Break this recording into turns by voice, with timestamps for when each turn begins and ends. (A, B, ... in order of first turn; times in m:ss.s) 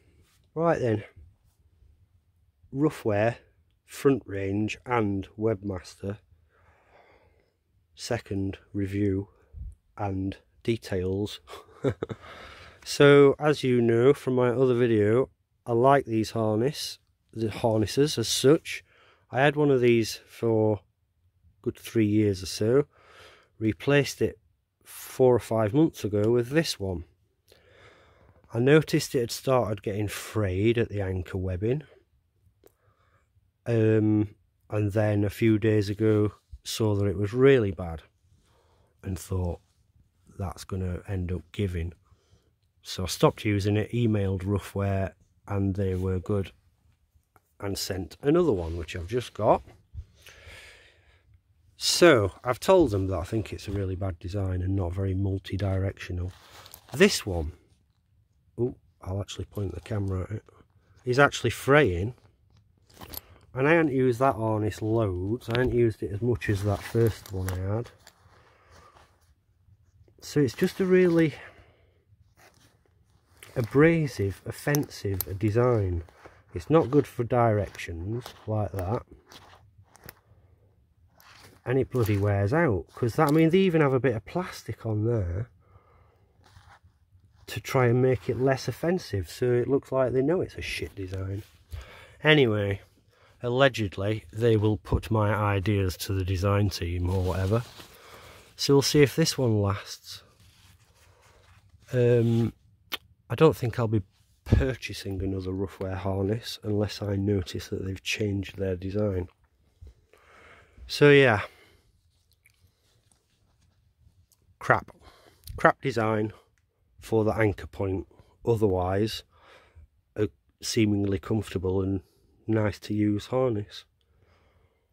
0:00.5-0:01.0 A
0:02.7-0:06.2 A
0:08.0-0:09.3 A
0:10.0-0:12.1 A
0:12.8-0:20.8 A
0:21.6-0:22.9 A
0:23.6-0:27.0 A
0:28.5-0:31.8 A
0:33.7-0:38.0 A
0:39.0-0:39.6 A
0:40.3-0:42.0 A
0:42.8-0:46.5 A
0:47.6-0:49.6 A
0:51.8-0:56.3 A
0:56.9-0:57.6 A
0:58.6-1:00.4 A
1:01.0-1:02.2 A
1:03.5-1:07.9 A
1:10.2-1:11.4 A
1:13.6-1:19.0 A
1:21.6-1:25.5 A
1:27.5-1:31.4 A
1:32.2-1:32.8 A
1:33.4-1:37.6 A
1:38.6-1:40.2 A
1:41.9-1:42.5 A
1:43.3-1:49.3 A
1:50.9-1:51.4 A
1:54.6-1:55.0 A
1:55.6-1:56.3 A
1:57.0-1:59.2 A
2:00.2-2:03.9 A